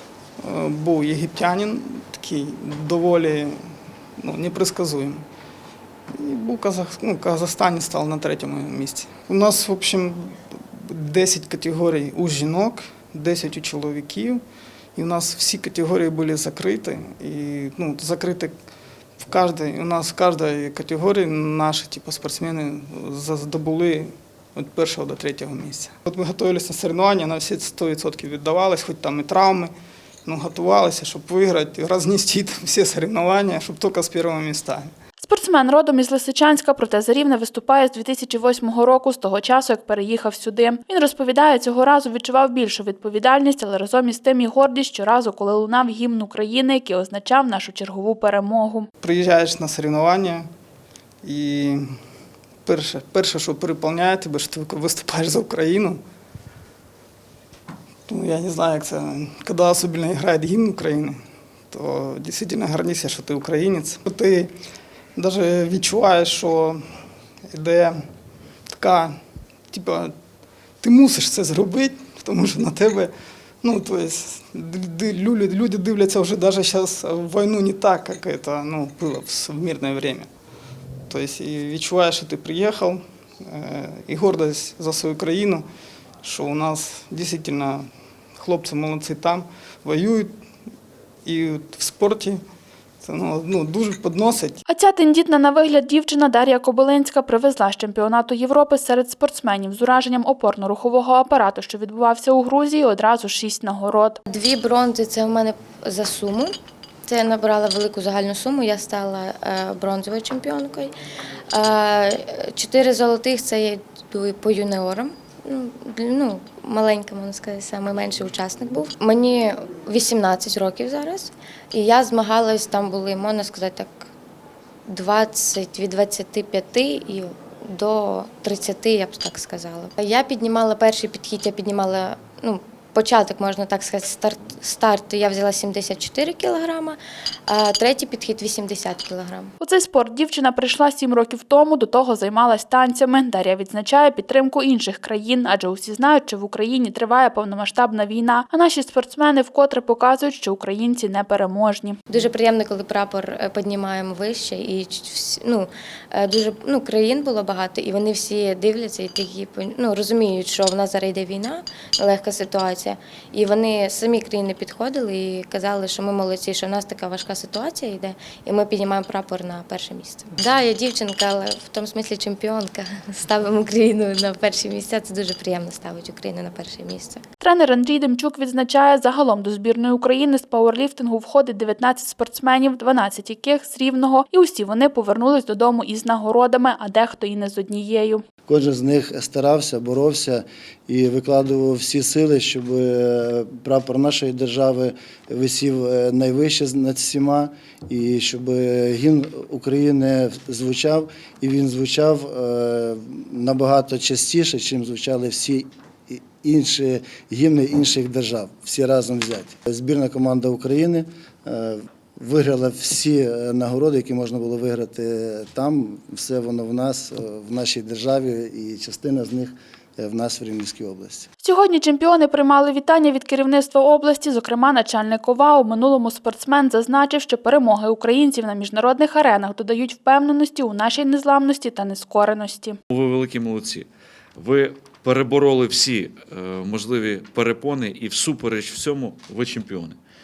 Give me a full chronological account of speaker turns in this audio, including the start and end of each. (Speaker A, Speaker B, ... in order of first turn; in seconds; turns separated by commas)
Speaker A: 0.4-3.6, Speaker A: 4.2-5.2, Speaker A: 6.1-14.4, Speaker A: 14.9-18.5, Speaker A: 19.2-29.7, Speaker A: 30.2-34.9, Speaker B: 35.2-48.9, Speaker A: 49.0-50.5, Speaker A: 51.2-52.0, Speaker A: 52.6-56.0, Speaker A: 58.1-61.2, Speaker A: 61.7-64.5, Speaker A: 65.2-66.8, Speaker A: 67.5-68.0, Speaker A: 68.7-69.2, Speaker A: 69.7-70.1, Speaker A: 70.8-80.3, Speaker A: 81.1-85.7, Speaker A: 86.2-90.3, Speaker A: 91.2-92.4, Speaker A: 93.0-94.6, Speaker B: 94.7-104.2, Speaker C: 104.3-106.5, Speaker C: 107.1-111.0, Speaker C: 111.5-124.1, Speaker C: 124.9-139.5, Speaker B: 139.6-152.0, Speaker C: 152.1-177.2, Speaker B: 177.4-188.2, Speaker D: 188.4-221.3, Speaker B: 221.4-232.8, Speaker E: 232.9-240.0